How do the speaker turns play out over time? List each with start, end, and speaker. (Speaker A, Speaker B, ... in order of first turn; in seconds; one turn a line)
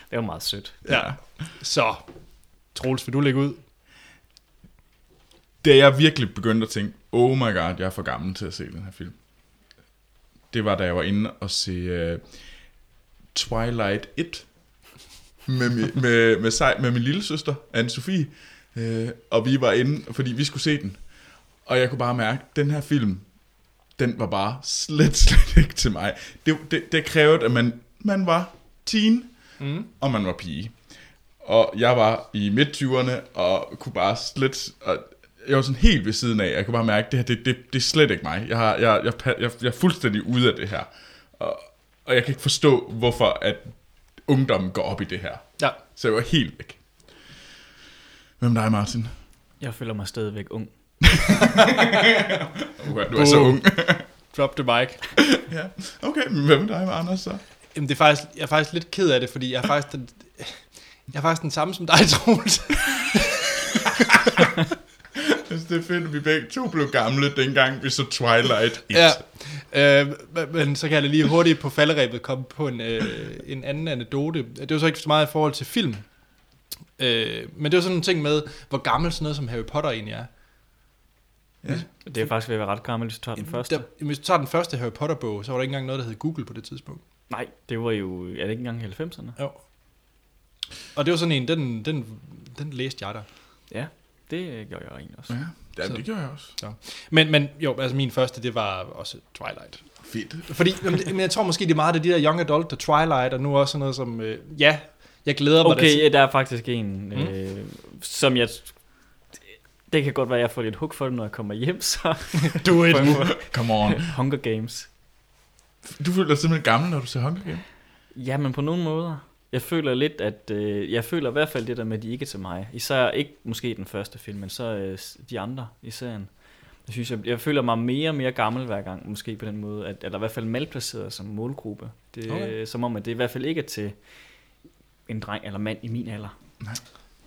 Speaker A: 0.1-0.8
Speaker B: 0.9-2.0
Speaker C: 0.9-1.1
Speaker B: 2.7-3.6
Speaker C: 5.6-9.2
Speaker C: 10.5-12.2
Speaker C: 13.3-14.5
Speaker C: 15.4-21.0
Speaker C: 21.6-23.3
Speaker C: 23.9-30.8
Speaker B: 29.6-29.9
Speaker C: 31.4-46.8
Speaker C: 48.4-49.1
Speaker A: 49.6-50.7
Speaker C: 51.1-54.0
Speaker B: 51.8-52.0
Speaker B: 53.0-55.2
Speaker C: 55.2-57.4
Speaker B: 57.7-64.1
Speaker C: 65.1-69.2
Speaker B: 68.9-76.0
Speaker B: 77.0-80.3
Speaker A: 82.0-83.8
Speaker B: 83.5-87.0
Speaker A: 87.3-89.4
Speaker B: 90.9-93.2
Speaker A: 93.7-95.3
Speaker C: 95.3-96.5
Speaker B: 95.9-106.1
Speaker C: 100.0-100.5
Speaker A: 105.6-108.8
Speaker A: 109.9-114.9
Speaker B: 112.5-113.3
Speaker C: 112.6-114.1
Speaker C: 115.8-117.6
Speaker A: 118.1-126.3
Speaker A: 126.8-133.9
Speaker B: 132.3-132.5
Speaker A: 135.1-136.3